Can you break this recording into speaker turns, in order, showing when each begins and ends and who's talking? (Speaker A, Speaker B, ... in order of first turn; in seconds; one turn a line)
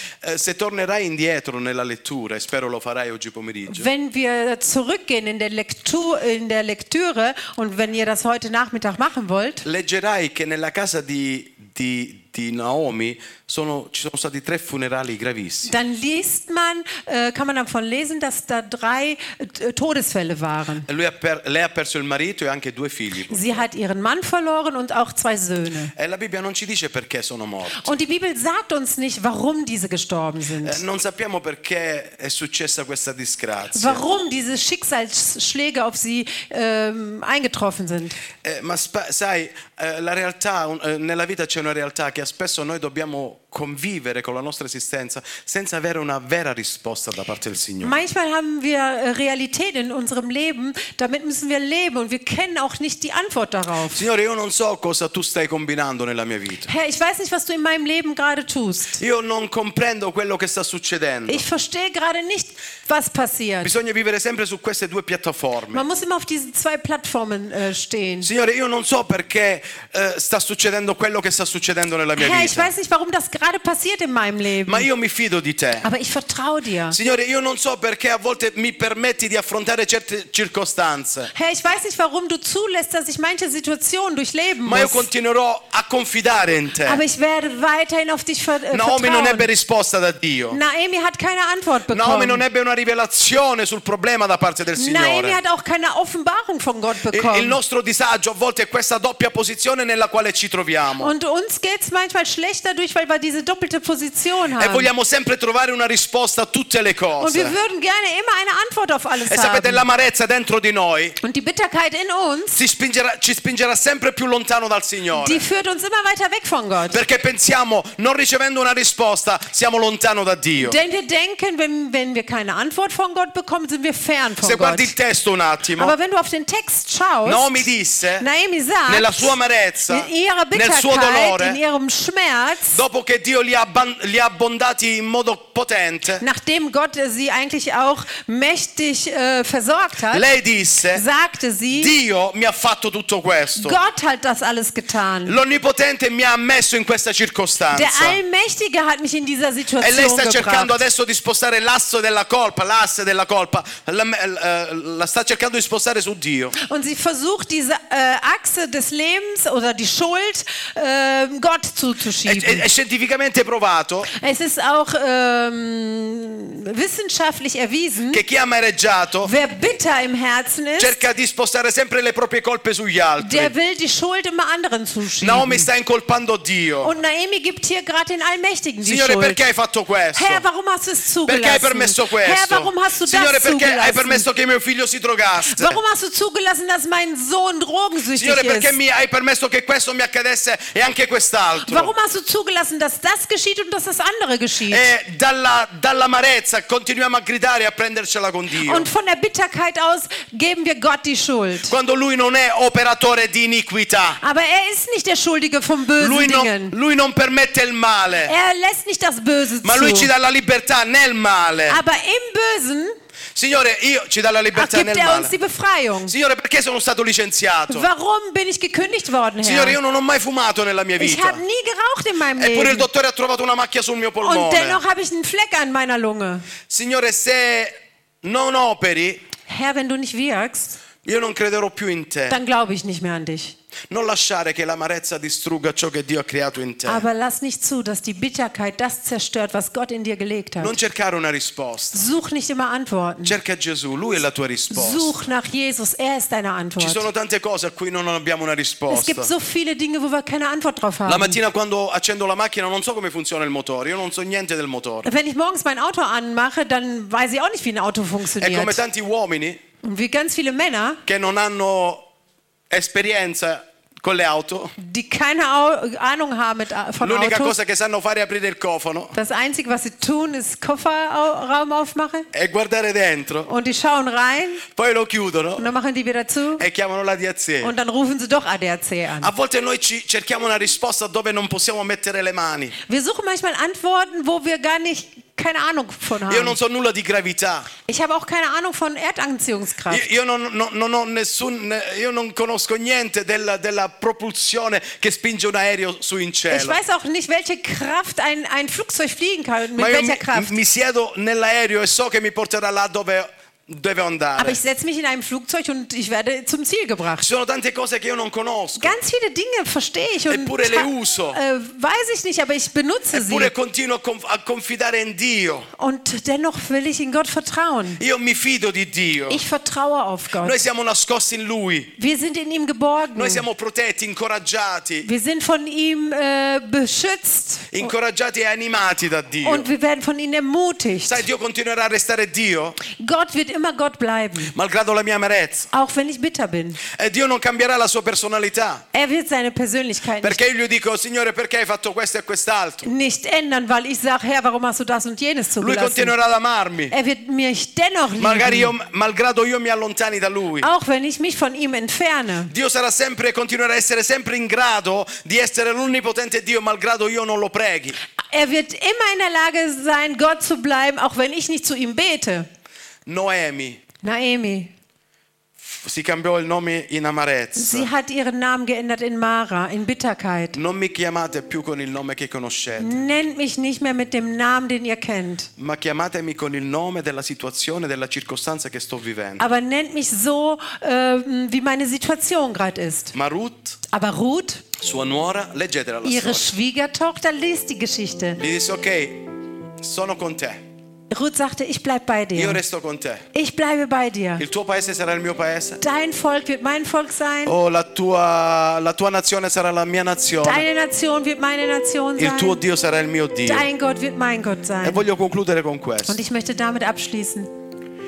Speaker A: 0.2-3.9
Speaker B: 3.7-9.6
Speaker A: 9.6-15.7
Speaker B: 15.7-20.9
Speaker A: 20.9-23.6
Speaker B: 23.3-25.9
Speaker A: 25.9-27.9
Speaker B: 27.8-30.8
Speaker A: 30.6-34.0
Speaker B: 33.7-38.2
Speaker A: 38.4-48.0
Speaker B: 47.8-54.0
Speaker A: 53.9-56.7
Speaker B: 56.7-59.0
Speaker A: 59.0-61.4
Speaker B: 61.3-63.7
Speaker A: 63.6-65.8
Speaker B: 65.7-68.3
Speaker A: 68.2-72.7
Speaker B: 72.2-74.9
Speaker A: 74.7-75.9
Speaker B: 75.8-77.0
Speaker A: 76.9-81.3
Speaker B: 81.3-85.1
Speaker A: 84.6-87.0
Speaker B: 86.8-89.5
Speaker A: 88.7-90.6
Speaker B: 90.5-92.4
Speaker A: 91.9-95.4
Speaker B: 94.8-97.6
Speaker A: 97.1-101.1
Speaker B: 101.0-104.9
Speaker A: 104.6-107.5
Speaker B: 107.2-109.8
Speaker A: 109.2-111.2
Speaker B: 111.2-112.6
Speaker A: 112.5-115.4
Speaker B: 115.1-117.0
Speaker A: 116.9-120.8
Speaker B: 120.6-124.9
Speaker A: 124.4-125.9
Speaker B: 125.8-127.7
Speaker A: 127.2-128.3
Speaker B: 128.2-129.3
Speaker A: 128.9-131.6
Speaker B: 129.9-132.8
Speaker A: 132.7-136.2
Speaker B: 136.2-140.3
Speaker A: 140.1-141.0
Speaker B: 140.9-141.9
Speaker A: 141.7-143.8
Speaker B: 143.5-145.3
Speaker A: 145.2-148.2
Speaker B: 147.7-150.8
Speaker A: 149.8-156.6
Speaker B: 156.6-162.7
Speaker A: 162.2-164.1
Speaker B: 164.1-168.2
Speaker A: 168.1-169.3
Speaker B: 169.2-171.0
Speaker A: 170.8-173.5
Speaker B: 173.2-175.7
Speaker A: 175.2-176.9
Speaker B: 176.8-179.4
Speaker A: 178.8-180.4
Speaker B: 180.1-184.2
Speaker A: 181.2-185.8
Speaker B: 185.5-188.7
Speaker A: 188.1-191.9
Speaker B: 191.6-194.9
Speaker A: 194.7-198.9
Speaker B: 198.6-201.7
Speaker A: 201.7-204.2
Speaker B: 204.2-206.7
Speaker A: 206.0-208.3
Speaker B: 208.2-210.1
Speaker A: 209.6-211.8
Speaker B: 211.7-212.9
Speaker A: 213.3-215.3
Speaker B: 214.5-216.1
Speaker A: 216.1-217.9
Speaker B: 217.7-219.8
Speaker A: 219.4-221.4
Speaker B: 221.0-222.9
Speaker A: 222.4-224.8
Speaker B: 224.2-226.5
Speaker A: 226.7-227.7
Speaker A: 228.2-229.2
Speaker B: 229.5-230.8
Speaker A: 231.0-232.4
Speaker B: 232.3-233.5
Speaker A: 233.9-237.0
Speaker B: 236.8-240.8
Speaker A: 240.6-242.1
Speaker B: 241.9-243.3
Speaker A: 243.2-245.1
Speaker B: 244.7-247.0
Speaker A: 246.8-249.3
Speaker B: 248.9-251.4
Speaker A: 251.1-255.1
Speaker B: 255.0-258.8
Speaker A: 258.4-259.6
Speaker B: 259.8-261.0
Speaker A: 261.1-262.0
Speaker A: 262.7-264.7
Speaker B: 264.8-267.6
Speaker A: 267.0-269.1
Speaker B: 269.1-272.3
Speaker A: 272.3-273.5
Speaker B: 273.4-274.6
Speaker A: 274.7-275.7
Speaker B: 275.6-276.6
Speaker A: 276.6-277.7
Speaker B: 277.6-279.3
Speaker A: 279.2-282.8
Speaker B: 282.9-286.6
Speaker A: 286.3-287.7
Speaker B: 287.9-290.1
Speaker A: 289.9-296.8
Speaker B: 296.5-300.5
Speaker A: 299.8-304.6
Speaker B: 304.4-307.2
Speaker A: 307.2-308.9
Speaker B: 308.8-313.5
Speaker A: 310.3-311.4
Speaker A: 313.1-315.7
Speaker B: 315.8-318.0
Speaker A: 318.0-319.4
Speaker B: 319.3-320.6
Speaker A: 320.4-321.9
Speaker B: 322.0-323.4
Speaker A: 323.1-325.1
Speaker B: 325.0-327.9
Speaker A: 327.7-329.7
Speaker B: 329.4-331.2
Speaker A: 331.0-332.8
Speaker B: 332.9-334.5
Speaker A: 334.5-335.7
Speaker B: 335.7-336.8
Speaker A: 336.9-338.8
Speaker B: 338.9-340.4
Speaker A: 340.2-342.9
Speaker B: 342.8-346.1
Speaker A: 345.6-346.9
Speaker B: 346.9-348.7
Speaker A: 348.2-350.7
Speaker B: 350.6-352.5
Speaker A: 352.5-358.0
Speaker B: 358.2-362.5
Speaker A: 363.1-363.8
Speaker B: 364.0-364.7
Speaker A: 365.6-367.9
Speaker B: 367.6-370.6
Speaker A: 370.5-373.0
Speaker B: 372.8-375.5
Speaker A: 375.6-379.4
Speaker B: 379.4-383.1
Speaker A: 383.1-383.8
Speaker B: 383.9-384.6
Speaker A: 384.8-386.5
Speaker B: 386.0-388.4
Speaker A: 388.4-389.2
Speaker A: 389.8-390.6
Speaker B: 391.1-392.6
Speaker A: 392.4-393.2
Speaker B: 393.3-394.4
Speaker A: 394.4-395.8
Speaker B: 395.8-397.5
Speaker A: 397.4-400.6
Speaker B: 400.4-402.6
Speaker A: 402.2-403.6
Speaker B: 403.4-405.0
Speaker A: 404.8-406.2
Speaker B: 406.0-407.5